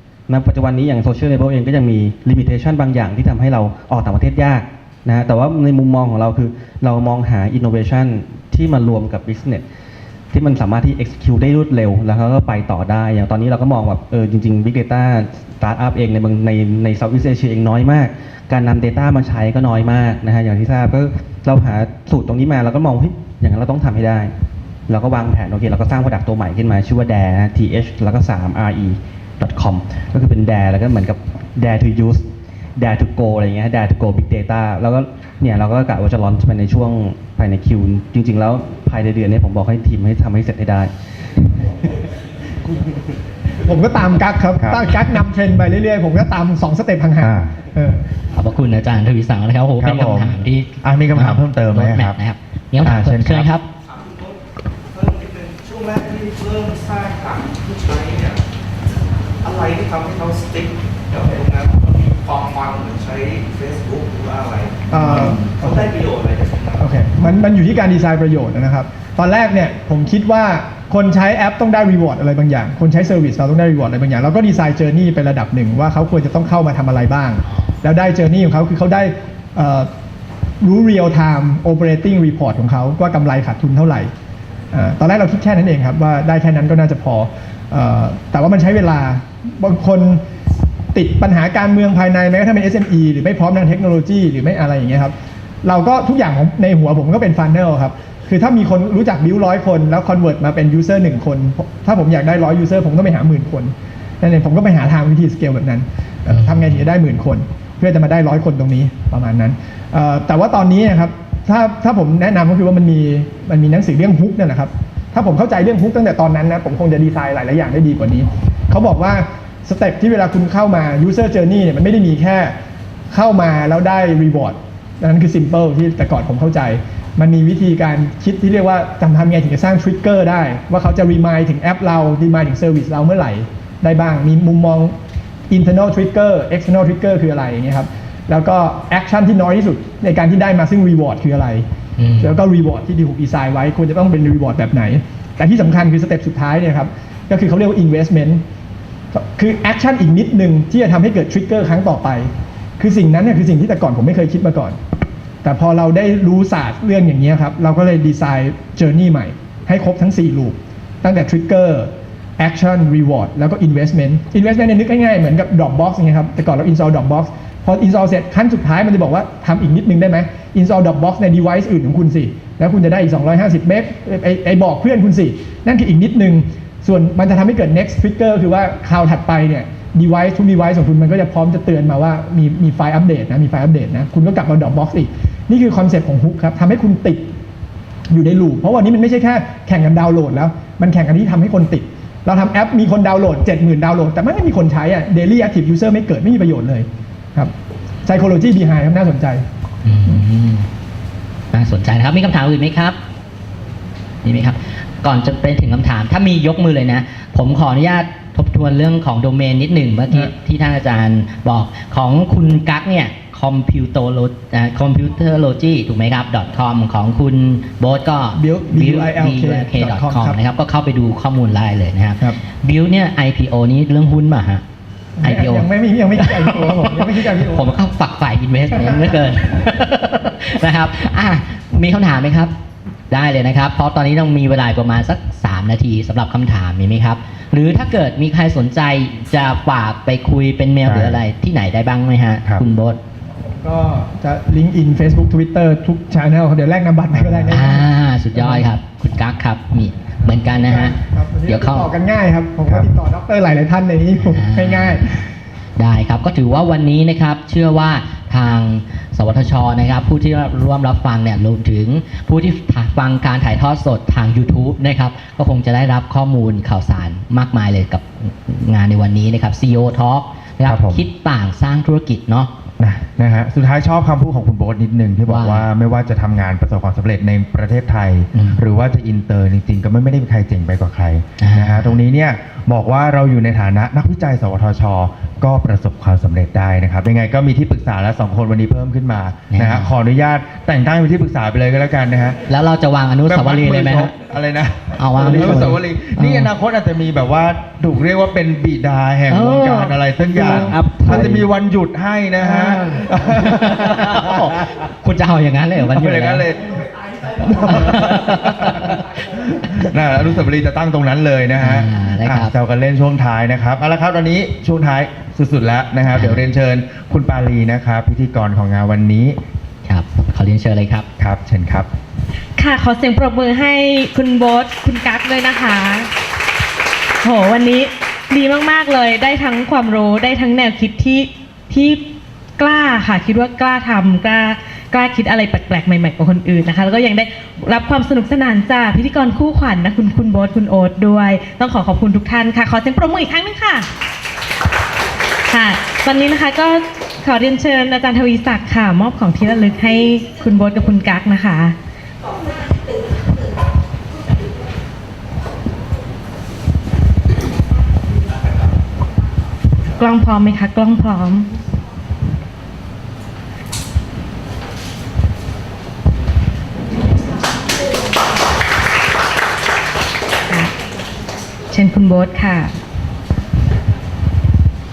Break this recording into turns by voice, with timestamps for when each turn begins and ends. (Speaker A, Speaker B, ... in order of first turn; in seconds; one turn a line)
Speaker A: 0.3-9.6
Speaker A: 10.3-24.3
Speaker A: 24.9-32.2
Speaker A: 32.8-40.9
Speaker B: 43.6-48.0
Speaker C: 44.6-44.9
Speaker C: 47.2-47.6
Speaker D: 48.3-53.6
Speaker C: 49.8-52.2
Speaker C: 52.8-53.6
Speaker E: 53.9-54.4
Speaker E: 54.9-58.4
Speaker E: 59.4-67.0
Speaker B: 64.9-66.0
Speaker B: 66.8-79.9
Speaker B: 80.6-84.1
Speaker B: 84.7-90.2
Speaker B: 90.9-122.5
Speaker D: 106.3-106.7
Speaker B: 123.1-134.9
Speaker B: 135.5-141.7
Speaker D: 142.0-142.4
Speaker B: 142.2-148.4
Speaker B: 149.1-154.8
Speaker B: 155.4-187.3
Speaker B: 188.1-197.5
Speaker B: 198.0-199.4
Speaker D: 199.8-200.7
Speaker D: 201.5-203.0
Speaker D: 204.2-224.6
Speaker B: 218.3-220.4
Speaker B: 225.2-227.7
Speaker D: 225.2-232.5
Speaker D: 233.1-243.0
Speaker C: 240.8-241.2
Speaker B: 243.6-248.7
Speaker C: 247.1-247.6
Speaker D: 247.5-251.9
Speaker B: 250.3-255.3
Speaker C: 252.7-252.9
Speaker D: 254.2-255.1
Speaker D: 255.8-272.5
Speaker C: 270.6-271.0
Speaker C: 272.8-292.4
Speaker D: 275.3-275.6
Speaker D: 278.3-278.6
Speaker D: 281.4-282.0
Speaker D: 289.5-289.9
Speaker D: 292.5-294.1
Speaker C: 293.3-304.2
Speaker D: 295.0-296.5
Speaker D: 299.3-301.4
Speaker A: 300.4-301.5
Speaker D: 302.4-306.5
Speaker C: 305.9-319.4
Speaker D: 307.5-308.9
Speaker D: 310.1-310.4
Speaker D: 311.6-312.5
Speaker D: 316.1-316.4
Speaker D: 319.9-321.1
Speaker C: 321.2-321.9
Speaker F: 322.6-326.1
Speaker F: 327.2-332.0
Speaker F: 332.6-343.9
Speaker F: 345.5-351.8
Speaker F: 360.0-361.5
Speaker F: 371.7-372.7